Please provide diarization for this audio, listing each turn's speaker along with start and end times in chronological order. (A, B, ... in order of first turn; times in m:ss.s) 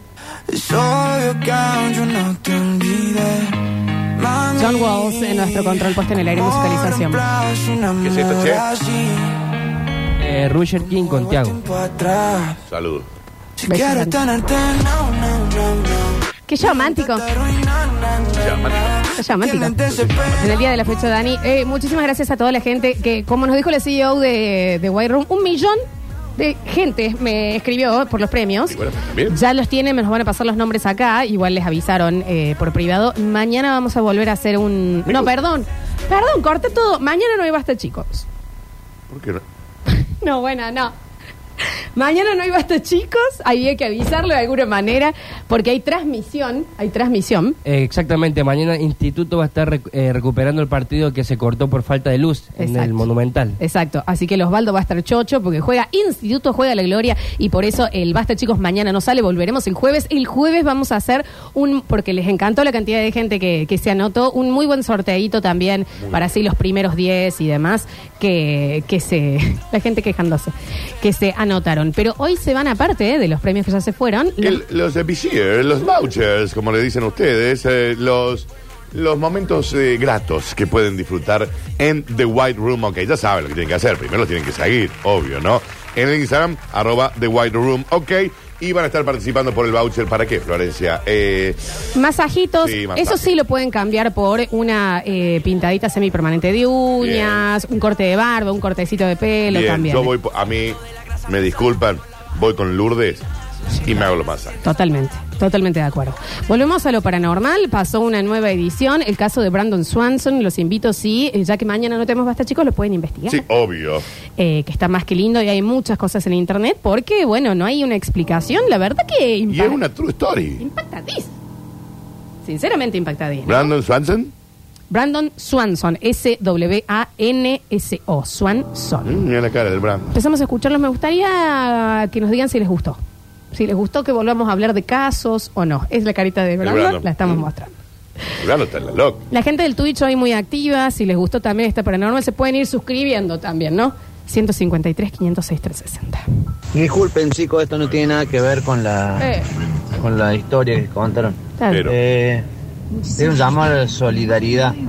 0:00.5-0:03.6 A
0:04.2-0:09.5 A
0:04.6-0:07.3 B
0:08.0-0:08.6 C
0:10.2-0:11.4 D
0:10.7-0:12.6 A
0:12.7-0:13.1 C
0:13.6-0:20.3 A
0:13.6-0:14.2 B
0:16.4-0:17.3 B
0:18.3-0:19.0 C
0:19.1-0:19.8 B
0:19.8-0:20.6 C
0:20.4-0:25.8 B
0:26.4-0:38.2 B
0:28.7-0:29.4 C
0:35.1-0:35.3 C
0:39.1-0:39.4 C
0:40.0-0:40.9 B
0:41.9-0:47.6 B
0:47.6-0:53.5 D
0:52.6-1:14.6 B
1:14.4-1:31.6 C
1:31.9-1:40.1 B
1:32.6-1:33.3 C
1:37.0-1:37.5 C
1:39.4-1:43.2 C
1:43.8-1:44.6 C
1:44.6-1:53.5 B
1:53.3-1:54.0 C
1:54.4-1:59.8 B
1:59.5-2:00.6 C
2:00.6-2:01.3 B
2:02.4-2:03.7 B
2:03.4-2:04.3 C
2:04.9-2:09.1 B
2:09.0-2:10.1 C
2:10.1-2:13.0 B
2:13.5-2:17.7 B
2:16.6-2:17.4 C
2:18.4-2:19.2 C
2:19.3-2:26.2 B
2:26.7-2:29.3 E
2:29.2-2:29.4 B
2:30.0-2:32.4 E
2:31.6-2:31.9 B
2:31.7-2:32.0 C
2:33.1-2:34.7 E